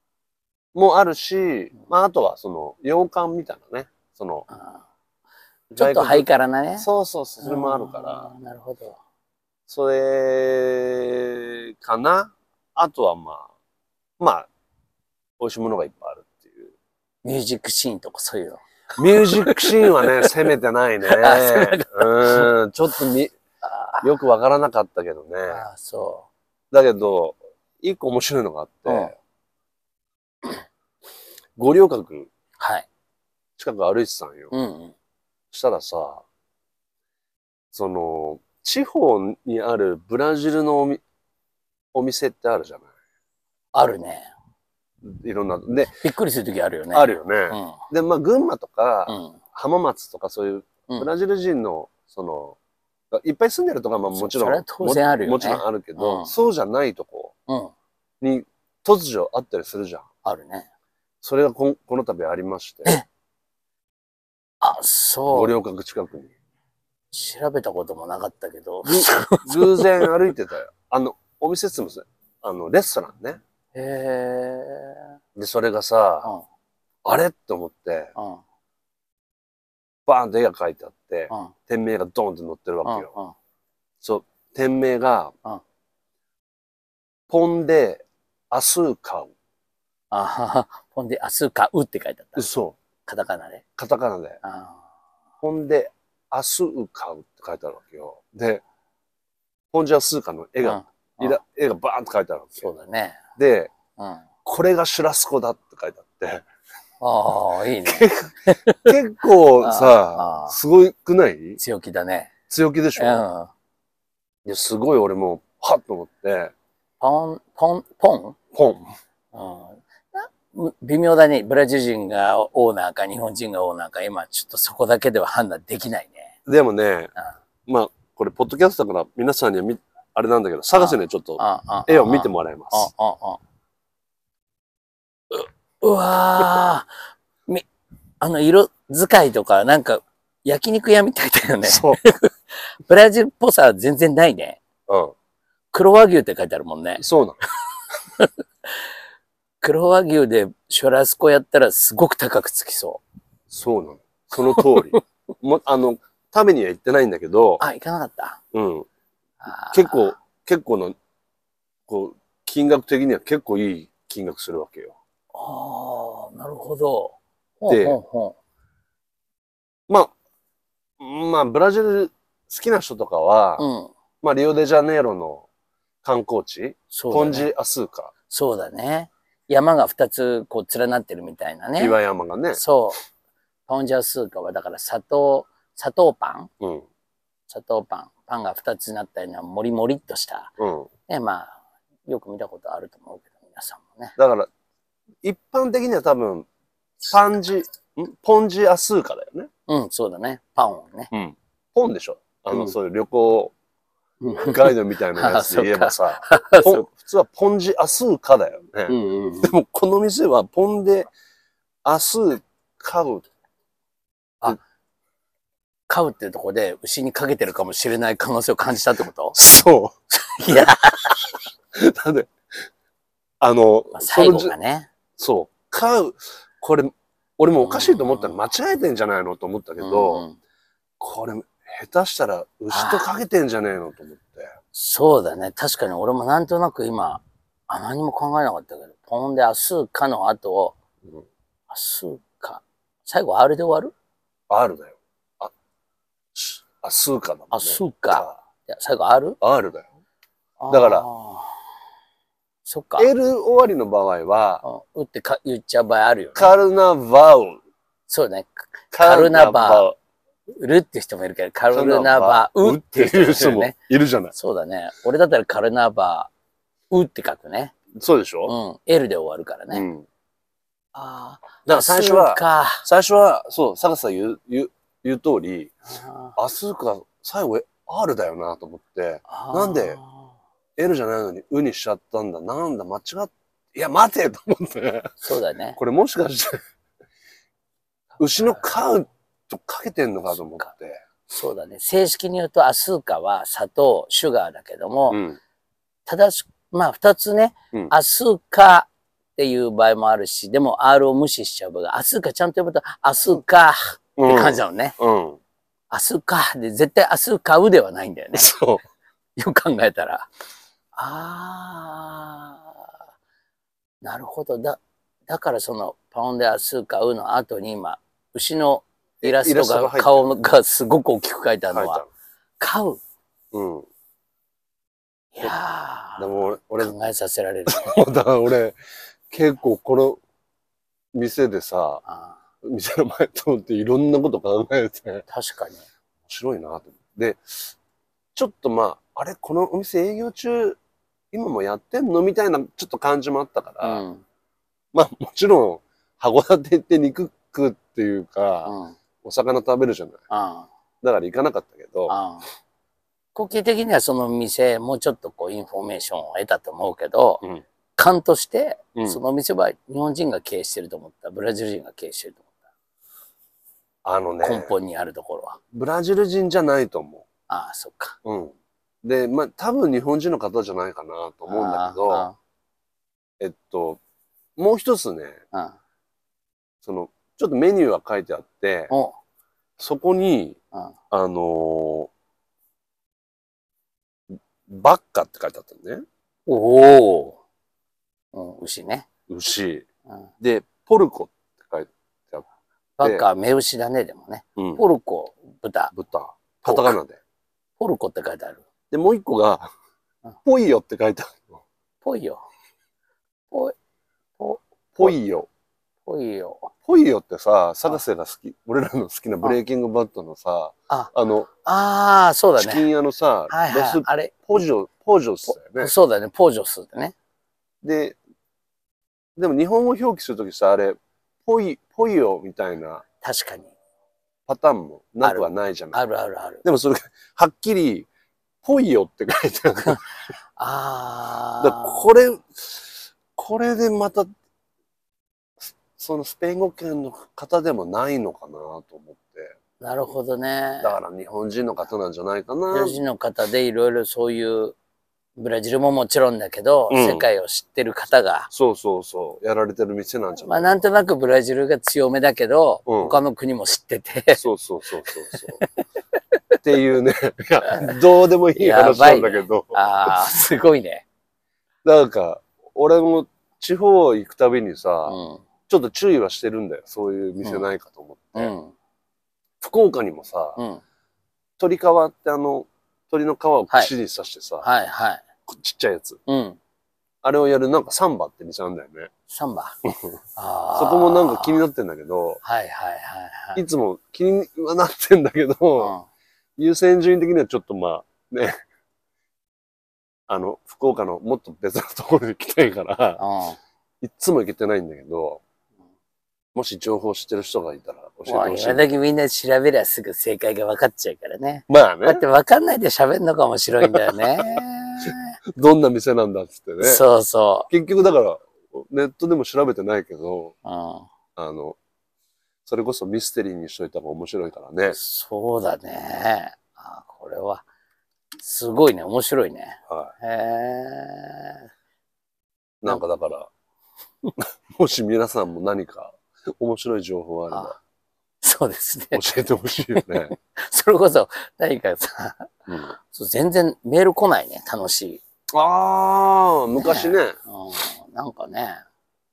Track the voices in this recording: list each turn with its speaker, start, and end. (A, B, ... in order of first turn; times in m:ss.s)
0:00.7-0:04.4 A
0:04.5-0:04.8 B
0:05.7-0:06.9 B
0:05.8-0:06.3 A
0:06.8-0:08.3 A
0:07.4-0:09.0 B
0:09.7-0:13.5 A
0:14.2-0:14.5 A
0:15.4-0:16.7 A
0:17.2-0:20.3 B
0:19.0-0:23.3 A
0:21.0-0:22.5 B
0:23.6-0:24.2 B
0:24.0-0:25.6 A
0:25.5-0:26.3 B
0:26.7-0:29.1 A
0:28.8-0:29.1 B
0:31.6-0:32.3 A
0:32.6-0:32.9 B
0:33.6-0:34.5 A
0:34.5-0:34.9 B
0:35.5-0:36.2 A
0:37.7-0:41.0 A
0:41.9-0:42.9 A
0:43.7-0:44.3 B
0:45.0-0:45.9 A
0:46.0-0:47.8 B
0:46.9-0:52.6 A
0:49.1-0:49.4 B
0:53.1-0:57.3 A
0:54.1-0:56.3 B
0:57.5-0:57.7 B
0:58.2-1:00.0 A
1:00.2-1:00.7 B
1:01.2-1:03.0 A
1:04.6-1:05.5 B
1:05.3-1:06.3 A
1:07.1-1:10.1 B
1:08.8-1:13.4 A
1:13.7-1:15.1 B
1:15.4-1:16.3 A
1:17.0-1:18.1 A
1:18.2-1:18.4 B
1:20.0-1:23.1 A
1:21.3-1:21.5 B
1:22.8-1:23.4 B
1:24.0-1:25.3 A
1:27.3-1:29.3 A
1:30.1-1:32.5 B
1:32.4-1:32.8 A
1:33.0-1:33.6 B
1:33.8-1:34.4 A
1:34.4-1:34.8 B
1:35.4-1:38.6 A
1:39.7-1:42.7 A
1:40.6-1:41.4 B
1:42.6-1:43.2 B
1:43.4-1:43.7 A
1:44.0-1:44.2 B
1:44.4-1:46.4 A
1:47.0-1:48.9 B
1:47.8-1:51.6 A
1:49.6-1:50.6 B
1:51.6-1:52.3 B
1:52.5-1:53.2 A
1:53.0-1:53.5 B
1:54.4-1:56.5 A
1:57.0-1:58.4 B
1:58.5-1:58.9 A
1:59.3-2:06.4 B
2:06.4-2:07.1 A
2:07.7-2:12.9 A
2:10.7-2:13.4 B
2:15.3-2:16.9 B
2:18.2-2:24.6 B
2:21.6-2:22.0 A
2:24.9-2:25.1 A
2:25.7-2:27.0 B
2:27.0-2:27.4 A
2:29.6-2:33.0 B
2:33.5-2:37.6 A
2:34.4-2:35.0 B
2:37.6-2:38.4 B
2:38.5-2:38.9 A
2:39.4-2:40.2 B
2:39.7-2:41.0 A
2:41.9-2:45.0 A
2:45.3-2:48.4 B
2:47.7-2:48.0 A
2:49.9-2:50.1 A
2:51.0-2:53.6 A
2:53.6-2:53.9 B
2:54.2-2:55.5 A
2:56.0-2:58.1 A
2:56.9-2:57.5 B
2:58.3-3:02.0 B
3:01.8-3:02.6 A
3:02.5-3:03.0 B
3:03.7-3:06.5 B
3:06.6-3:06.8 A
3:07.5-3:10.5 B
3:10.6-3:10.9 A
3:11.1-3:14.1 B
3:14.2-3:14.5 A
3:15.2-3:16.5 A
3:17.0-3:19.5 A
3:19.7-3:21.1 B
3:21.1-3:23.5 A
3:24.2-3:26.8 B
3:24.3-3:31.1 A
3:28.9-3:29.5 B
3:31.8-3:33.3 A
3:35.9-3:39.4 B
3:39.4-3:39.9 A
3:40.1-3:41.2 B
3:41.7-3:42.3 A
3:43.4-3:44.5 A
3:43.9-3:44.9 B
3:45.2-3:50.2 A
3:47.6-3:48.4 B
3:49.8-3:50.4 B
3:51.0-3:54.5 A
3:52.7-3:53.1 B
3:54.7-4:00.8 B
4:01.7-4:03.9 B
4:04.5-4:05.5 A
4:06.3-4:08.4 A
4:07.5-4:09.4 B
4:09.4-4:09.9 A
4:10.6-4:11.6 B
4:10.7-4:11.0 A
4:12.6-4:13.1 B
4:13.0-4:14.6 A
4:14.6-4:16.5 B
4:16.4-4:17.6 A
4:18.1-4:19.9 B
4:18.9-4:19.9 A
4:20.5-4:23.7 B
4:21.7-4:24.3 A
4:24.3-4:26.3 B
4:26.9-4:27.7 B
4:28.0-4:28.5 A
4:28.4-4:29.9 B
4:29.7-4:30.0 A
4:30.9-4:32.8 B
4:31.7-4:35.7 A
4:35.9-4:36.4 B
4:36.4-4:40.0 A
4:39.3-4:40.3 B
4:40.8-4:45.2 A
4:45.2-4:45.8 B
4:45.7-4:46.6 A
4:48.2-4:48.8 B
4:48.2-4:51.0 A
4:50.3-4:50.7 B
4:51.3-4:55.2 B
4:55.1-4:55.4 A
4:56.0-5:05.0 B
5:04.2-5:05.4 A
5:05.9-5:08.6 B
5:08.3-5:08.8 A
5:09.4-5:10.3 B
5:10.9-5:12.9 B
5:14.0-5:22.0 B
5:19.2-5:20.3 A
5:21.7-5:22.1 A
5:22.6-5:23.0 B
5:23.5-5:23.9 A
5:25.3-5:28.0 B
5:26.2-5:26.9 A
5:27.7-5:28.8 A
5:29.3-5:30.2 A
5:31.1-5:32.0 A
5:32.0-5:32.4 B
5:32.6-5:35.2 A
5:35.3-5:35.8 B
5:36.3-5:37.7 A
5:38.4-5:40.8 A
5:41.3-5:44.0 A
5:43.8-5:44.2 B
5:44.9-5:50.2 A
5:48.6-5:49.0 B
5:50.3-5:50.7 B
5:51.0-5:52.1 A
5:52.1-5:52.5 B
5:53.3-5:57.4 B
5:58.0-6:02.5 B
6:04.0-6:04.7 A
6:04.4-6:05.6 B
6:05.7-6:07.2 A
6:07.5-6:08.2 B
6:08.2-6:12.3 A
6:11.5-6:12.4 B
6:13.4-6:14.0 A
6:14.6-6:15.4 A
6:15.5-6:15.8 B
6:16.8-6:18.9 A
6:18.9-6:19.1 B
6:19.8-6:20.6 A
6:21.1-6:22.1 A
6:24.7-6:26.0 A
6:26.5-6:27.4 B
6:28.3-6:29.1 B
6:29.3-6:29.8 A
6:30.4-6:32.5 A
6:33.0-6:35.9 B
6:33.0-6:33.2 A
6:34.6-6:34.8 A
6:35.9-6:37.2 A
6:36.6-6:37.0 B
6:37.8-6:38.6 B
6:38.9-6:39.7 A
6:40.4-6:41.5 A
6:42.0-6:42.4 B
6:44.4-6:45.2 B
6:45.0-6:45.5 A
6:46.0-6:46.7 B
6:46.9-6:51.5 A
6:51.6-6:52.9 B
6:52.6-6:55.9 A
6:53.5-6:54.6 B
6:55.6-6:57.1 B
6:57.8-6:58.2 A
6:59.4-7:03.0 A
7:03.2-7:03.7 B
7:04.5-7:06.0 A
7:05.2-7:06.6 B
7:06.6-7:08.1 A
7:08.6-7:10.0 A
7:10.6-7:12.0 B
7:11.6-7:14.3 A
7:15.9-7:19.5 A
7:19.8-7:21.0 B
7:20.8-7:23.0 A
7:22.7-7:24.8 B
7:25.4-7:28.5 B
7:26.9-7:27.3 A
7:28.5-7:30.8 A
7:30.4-7:34.4 B
7:32.9-7:33.2 A
7:34.4-7:35.6 A
7:35.3-7:35.7 B
7:36.6-7:40.1 A
7:37.7-7:37.9 B
7:38.5-7:41.0 B
7:41.8-7:45.2 A
7:45.0-7:45.4 B
7:45.7-7:48.5 A
7:47.4-7:47.7 B
7:48.3-7:48.7 B
7:49.6-7:50.6 A
7:50.6-7:50.8 B
7:51.6-7:54.7 A
7:54.6-7:55.2 B
7:55.5-7:56.2 A
7:56.3-7:56.6 B
7:57.2-7:59.1 A
7:59.3-7:59.8 B
8:00.4-8:01.6 B
8:00.7-8:02.4 A
8:02.4-8:03.6 B
8:03.6-8:05.9 A
8:05.8-8:06.0 B
8:06.6-8:08.6 A
8:10.3-8:13.2 A
8:13.2-8:13.6 B
8:14.0-8:15.4 A
8:16.5-8:18.9 A
8:18.3-8:25.4 B
8:21.7-8:22.2 A
8:23.8-8:24.6 A
8:25.6-8:27.0 A
8:26.8-8:27.7 B
8:27.7-8:30.5 A
8:30.6-8:31.1 B
8:31.4-8:31.8 A
8:32.7-8:35.0 A
8:34.9-8:37.6 B
8:38.4-8:41.6 B
8:42.8-8:43.5 A
8:44.4-8:47.7 A
8:47.5-8:47.8 B
8:48.4-8:55.2 B
8:49.1-8:50.3 A
8:52.7-8:53.0 A
8:55.5-8:57.4 A
8:56.8-8:58.8 B